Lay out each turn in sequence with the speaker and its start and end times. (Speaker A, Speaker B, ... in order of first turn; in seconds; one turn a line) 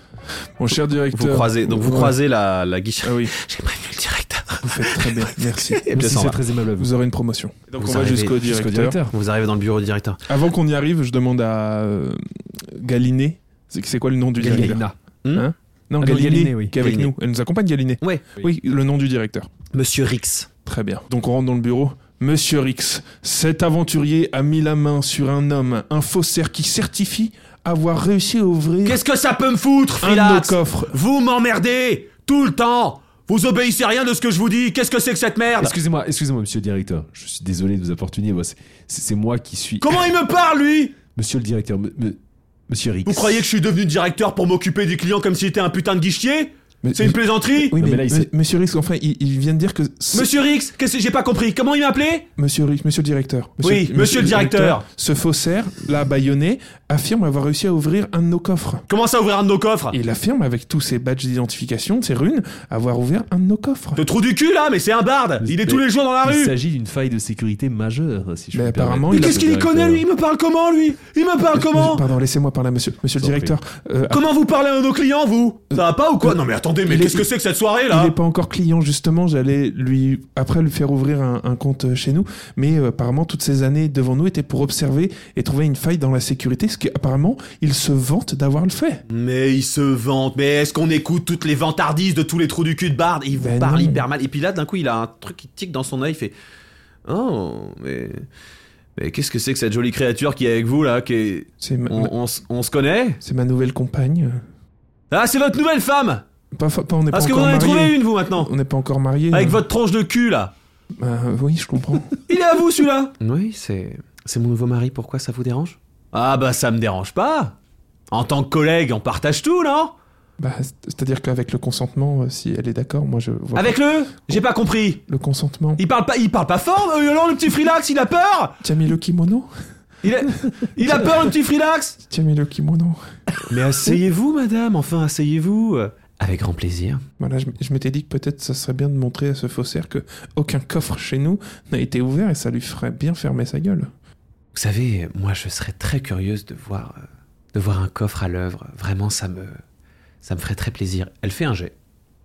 Speaker A: 0.6-2.2
Speaker B: 1.1-6.4
Speaker A: 3.0-3.4
Speaker A: 4.6-5.8
Speaker C: 5.9-6.9
Speaker A: 6.8-9.0
Speaker B: 7.8-8.4
Speaker C: 8.4-9.1
Speaker B: 9.1-10.2
Speaker A: 10.3-19.5
Speaker C: 14.4-14.9
Speaker B: 14.4-15.5
Speaker C: 16.0-16.8
Speaker B: 16.8-17.1
Speaker B: 18.0-18.3
Speaker B: 19.7-20.5
Speaker A: 20.7-29.0
Speaker B: 28.9-35.7
Speaker A: 30.0-31.0
Speaker C: 35.6-40.1
Speaker B: 39.8-41.0
Speaker C: 41.1-43.5
Speaker B: 43.0-47.8
Speaker A: 46.8-50.3
Speaker C: 47.8-48.3
Speaker B: 50.1-52.3
Speaker A: 52.4-58.9
Speaker B: 53.6-54.9
Speaker B: 58.9-60.0
Speaker A: 59.9-64.0
Speaker B: 64.0-66.5
Speaker C: 65.4-70.0
Speaker A: 68.5-69.5
Speaker B: 69.1-72.0
Speaker A: 71.5-74.2
Speaker C: 73.2-73.5
Speaker B: 74.1-78.2
Speaker A: 76.9-77.3
Speaker A: 77.9-89.0
Speaker B: 89.1-96.3
Speaker A: 93.4-94.1
Speaker B: 97.1-98.3
Speaker B: 99.0-103.2
Speaker A: 101.6-102.1
Speaker A: 103.2-104.4
Speaker B: 105.1-106.2
Speaker A: 106.5-109.6
Speaker B: 107.1-108.5
Speaker B: 109.3-110.5
Speaker A: 111.0-112.2
Speaker B: 112.2-117.5
Speaker B: 118.1-119.9
Speaker A: 120.4-124.4
Speaker B: 123.5-125.0
Speaker A: 125.1-125.8
Speaker B: 125.8-128.6
Speaker A: 128.6-129.5
Speaker B: 130.0-132.0
Speaker A: 130.8-131.2
Speaker A: 132.1-133.1
Speaker B: 133.5-137.0
Speaker A: 137.2-143.9
Speaker B: 144.5-149.6
Speaker B: 150.2-151.8